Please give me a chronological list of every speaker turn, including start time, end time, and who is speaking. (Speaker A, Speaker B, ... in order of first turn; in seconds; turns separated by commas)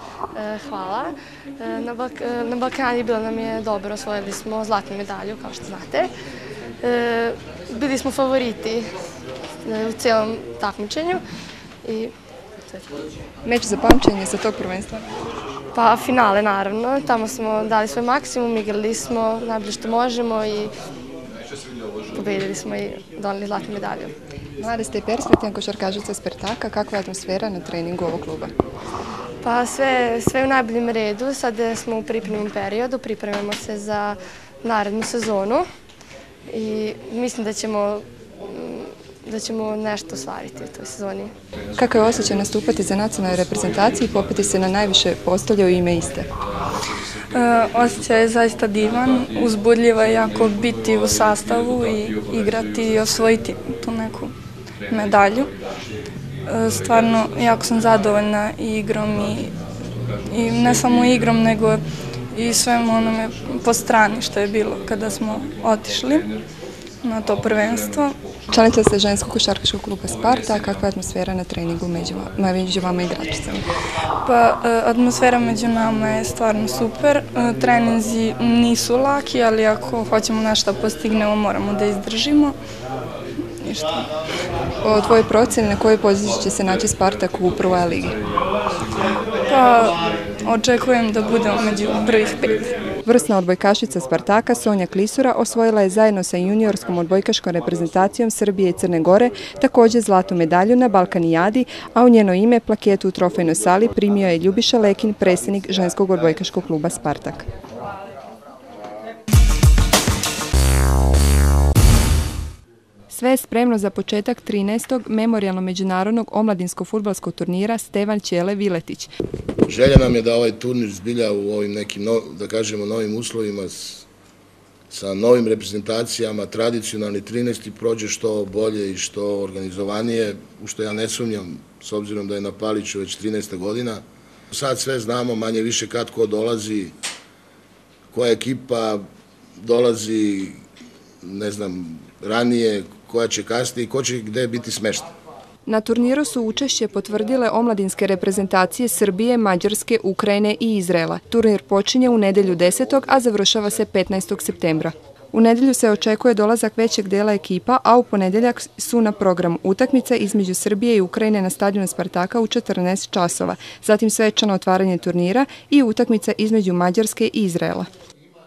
Speaker A: 0.3-6.1, Speaker A: 6.8-8.9, Speaker A: 9.6-11.2, Speaker A: 11.8-12.1, Speaker B: 13.4-15.1, Speaker A: 15.8-20.7, Speaker A: 22.1-24.1, Speaker B: 24.6-28.5, Speaker A: 29.4-35.7, Speaker A: 36.5-41.3, Speaker B: 41.8-46.3, Speaker C: 47.3-54.3, Speaker C: 54.9-55.5, Speaker C: 56.5-59.5, Speaker C: 60.3-66.3, Speaker C: 67.0-68.2, Speaker B: 68.5-73.7, Speaker C: 74.2-82.6, Speaker C: 83.6-84.0, Speaker B: 84.8-88.2, Speaker C: 89.5-92.7, Speaker B: 93.0-107.5, Speaker B: 113.1-119.1, Speaker D: 119.7-124.1, Speaker D: 124.9-136.9, Speaker D: 138.1-139.1, Speaker D: 139.6-140.6, Speaker D: 141.2-145.1, Speaker B: 145.7-167.9